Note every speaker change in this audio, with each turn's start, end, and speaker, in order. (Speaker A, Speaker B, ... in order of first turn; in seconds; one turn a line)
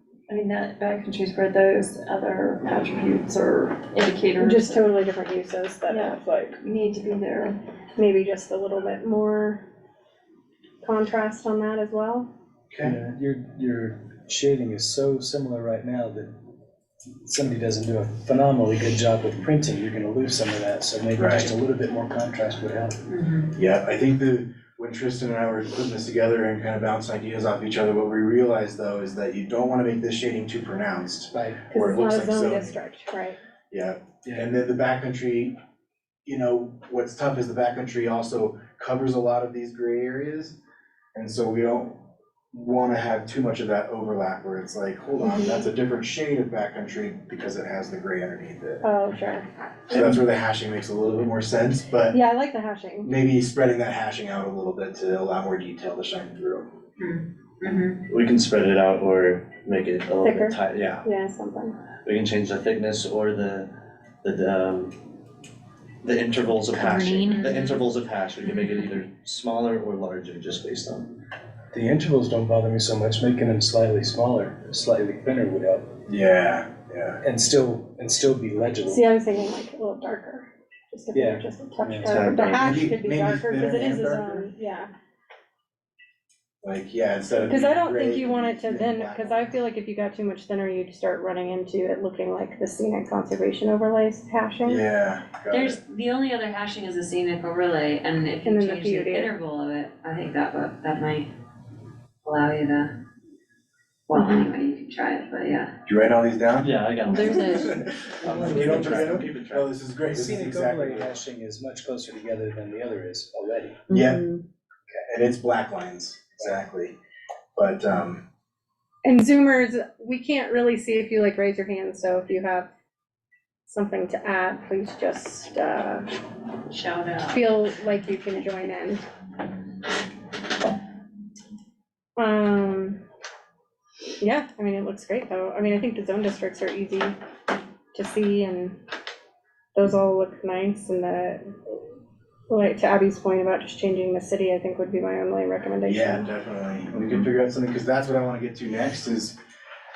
Speaker A: 0.3-3.5
Speaker B: 2.5-4.8
Speaker A: 4.1-4.5
Speaker C: 4.4-6.5
Speaker A: 5.9-7.5
Speaker C: 8.0-9.6
Speaker C: 10.8-12.3
Speaker D: 12.7-13.0
Speaker E: 12.8-16.3
Speaker E: 17.2-23.0
Speaker D: 21.1-21.5
Speaker B: 23.1-23.5
Speaker D: 23.5-32.7
Speaker E: 31.3-31.7
Speaker C: 31.7-33.4
Speaker D: 33.7-35.5
Speaker E: 34.2-34.6
Speaker D: 36.2-40.5
Speaker D: 41.1-48.8
Speaker C: 45.2-45.6
Speaker C: 48.8-50.2
Speaker D: 49.9-52.2
Speaker C: 52.1-53.1
Speaker D: 53.0-56.7
Speaker B: 57.0-58.0
Speaker F: 58.1-61.0
Speaker C: 60.2-61.8
Speaker F: 62.0-63.7
Speaker F: 64.2-64.9
Speaker F: 66.0-71.1
Speaker B: 66.7-67.8
Speaker B: 68.5-68.9
Speaker E: 71.7-76.0
Speaker D: 76.1-77.2
Speaker E: 77.2-79.0
Speaker C: 78.8-84.9
Speaker E: 81.1-82.2
Speaker F: 82.0-82.9
Speaker D: 82.5-84.5
Speaker D: 86.6-89.6
Speaker C: 87.5-94.8
Speaker D: 94.6-95.8
Speaker B: 95.5-101.3
Speaker C: 98.4-99.3
Speaker B: 102.2-102.9
Speaker B: 104.1-105.7
Speaker D: 105.8-106.7
Speaker F: 106.6-109.7
Speaker B: 107.1-108.7
Speaker D: 107.5-107.7
Speaker E: 108.4-109.0
Speaker D: 108.4-111.2
Speaker E: 110.1-113.8
Speaker D: 113.9-114.2
Speaker B: 113.9-114.4
Speaker D: 114.9-116.9
Speaker D: 117.5-118.2
Speaker C: 119.0-122.7
Speaker C: 123.7-126.1
Speaker B: 126.7-127.4
Speaker C: 127.3-129.0
Speaker C: 132.2-133.0
Speaker C: 134.2-137.2
Speaker C: 137.9-138.8
Speaker C: 139.8-141.8
Speaker C: 142.5-146.3
Speaker D: 145.8-149.4